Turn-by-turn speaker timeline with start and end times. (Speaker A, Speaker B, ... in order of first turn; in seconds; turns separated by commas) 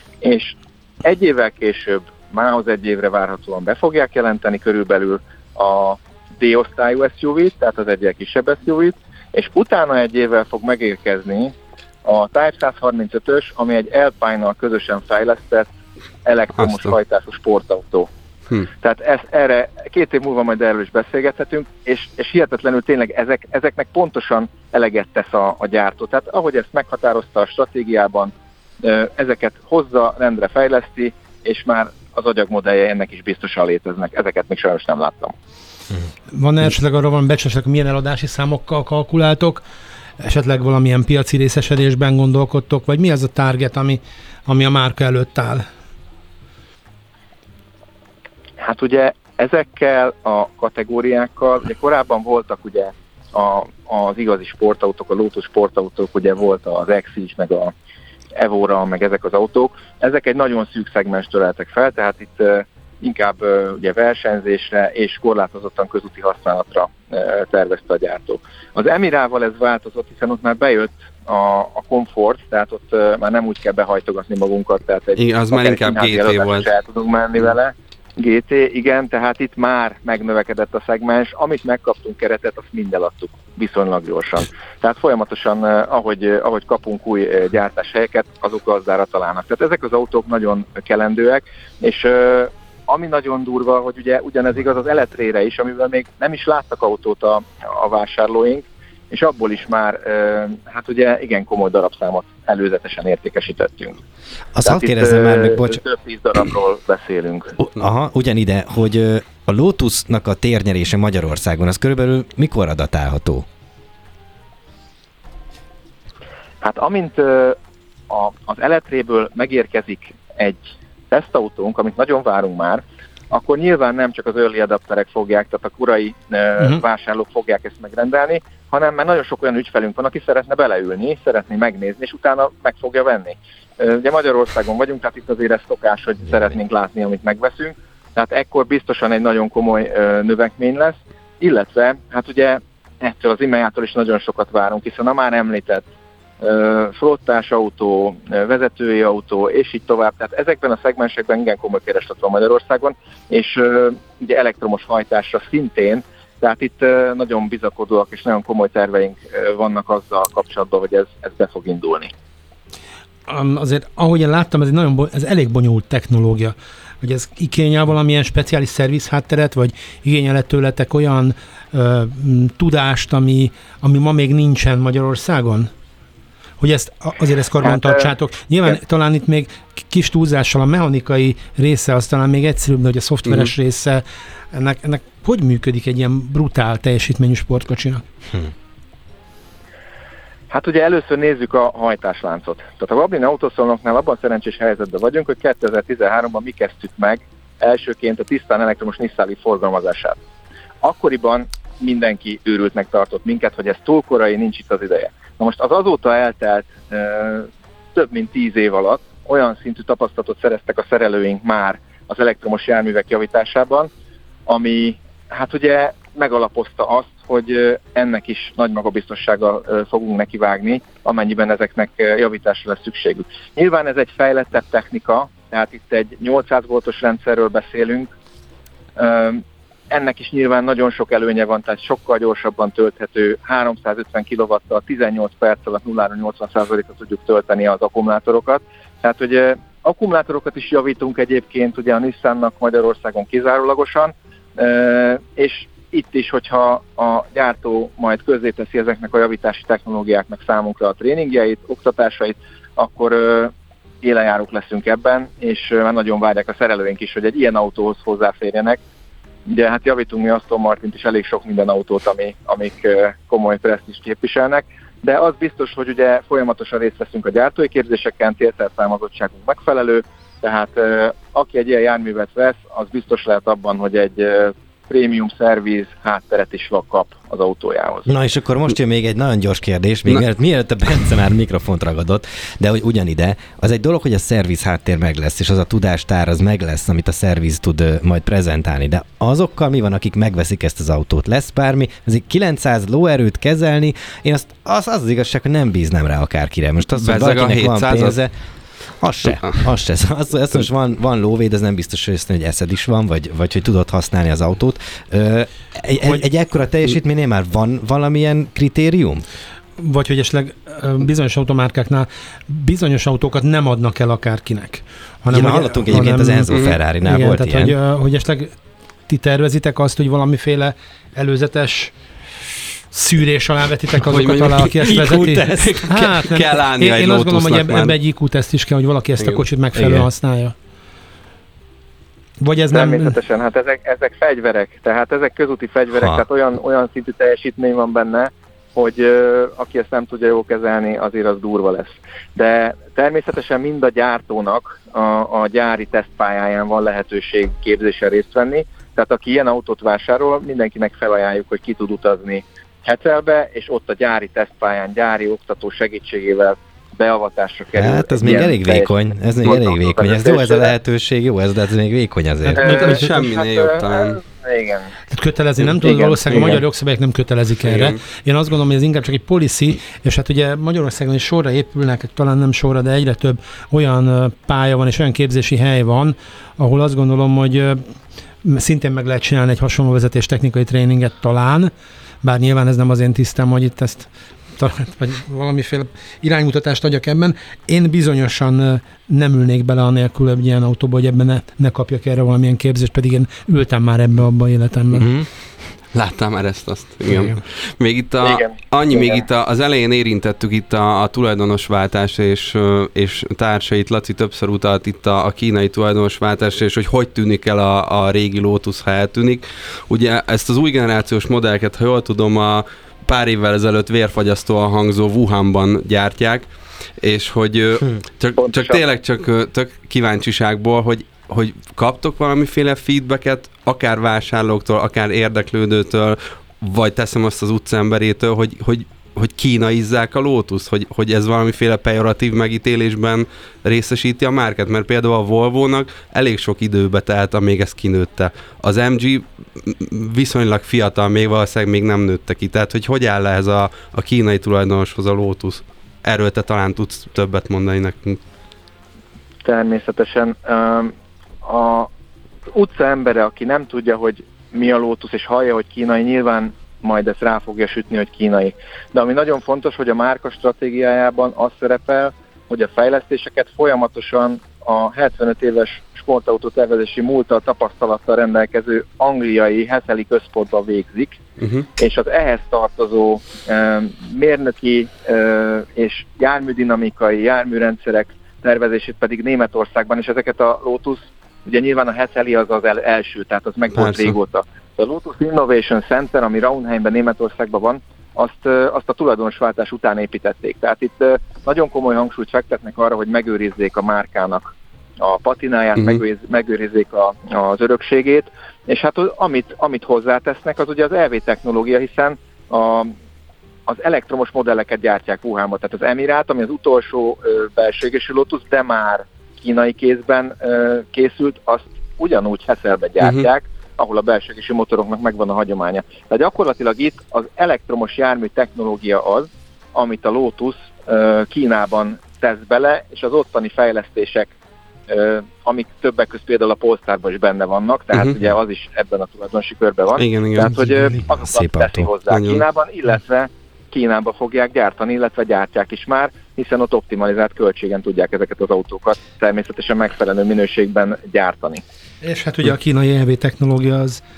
Speaker A: 0.2-11.5, Speaker A: 12.0-15.7, Speaker A: 16.2-18.1, Speaker B: 16.6-16.9, Speaker A: 18.8-35.3, Speaker C: 36.3-39.6, Speaker C: 40.2-45.6, Speaker A: 48.6-57.7, Speaker A: 58.4-104.0, Speaker B: 75.2-76.7, Speaker D: 104.5-105.8, Speaker A: 104.6-107.5, Speaker D: 107.6-113.5, Speaker A: 116.6-117.6, Speaker A: 118.1-145.8, Speaker A: 146.4-162.1, Speaker C: 163.3-175.7, Speaker C: 176.6-188.0, Speaker A: 177.6-178.1, Speaker A: 190.5-200.2, Speaker A: 200.8-213.9, Speaker A: 214.5-228.1, Speaker A: 228.9-258.8, Speaker A: 259.5-278.1, Speaker D: 278.1-298.3, Speaker B: 297.0-298.2, Speaker D: 299.0-309.2, Speaker B: 299.3-299.6, Speaker C: 309.8-321.9, Speaker D: 315.3-317.8, Speaker B: 316.5-316.8, Speaker C: 322.9-330.5, Speaker B: 323.9-328.0, Speaker D: 329.7-330.1, Speaker C: 332.4-333.1, Speaker A: 332.7-358.9, Speaker D: 335.9-336.2, Speaker D: 357.7-362.7, Speaker A: 359.4-360.7, Speaker C: 362.5-363.1, Speaker B: 362.6-364.2, Speaker A: 362.6-364.9, Speaker C: 365.1-377.8, Speaker A: 365.8-366.6, Speaker B: 367.6-368.0, Speaker C: 378.4-381.7, Speaker C: 382.2-395.1, Speaker D: 395.0-395.3, Speaker B: 395.9-448.2, Speaker C: 397.1-397.4, Speaker A: 398.2-399.2, Speaker A: 418.4-418.8, Speaker A: 449.4-451.9, Speaker A: 452.5-471.2, Speaker B: 471.4-471.6, Speaker A: 471.8-502.9, Speaker B: 483.7-484.1, Speaker B: 495.8-496.0, Speaker A: 503.7-524.3, Speaker A: 524.9-541.6, Speaker B: 529.9-530.5, Speaker D: 530.5-531.9, Speaker B: 532.1-532.4, Speaker C: 542.0-544.0